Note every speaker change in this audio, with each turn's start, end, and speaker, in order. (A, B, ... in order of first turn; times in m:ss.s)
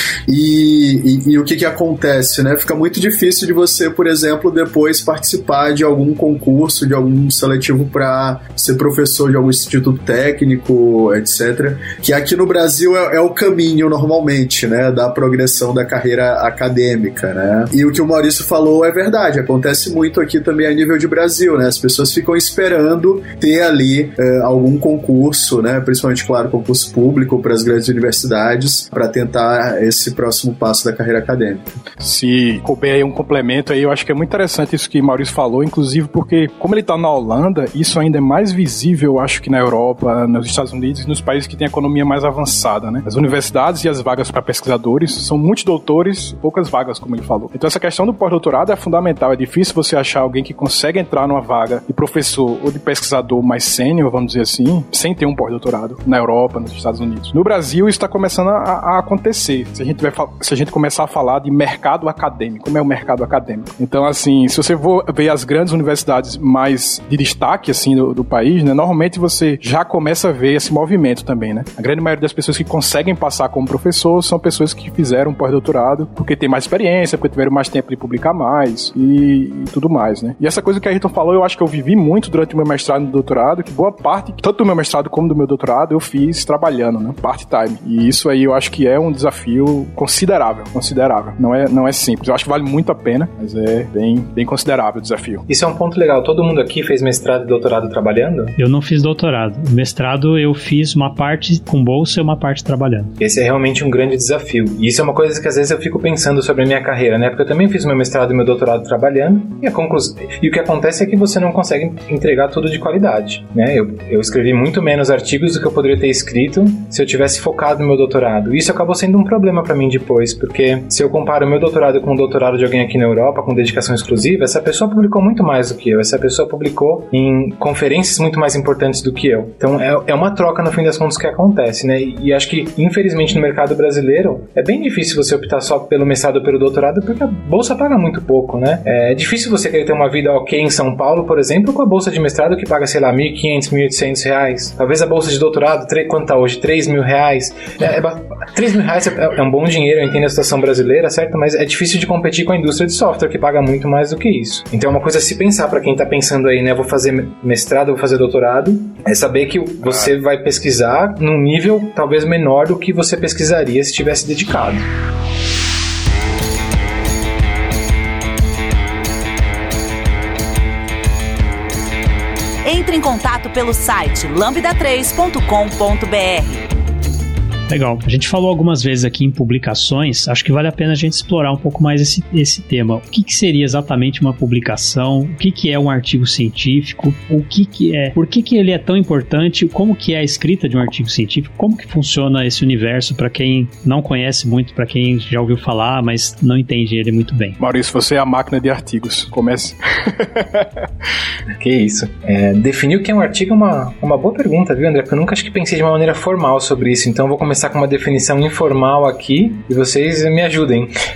0:00.3-0:31.8 A
0:32.0-1:35.4 B
1:35.5-1:38.6 C
1:38.6-1:43.1 D
1:43.2-2:44.9 C
2:52.6-2:56.6 E
2:57.7-3:17.6 D
3:17.6-3:20.8 B
3:21.6-3:30.9 C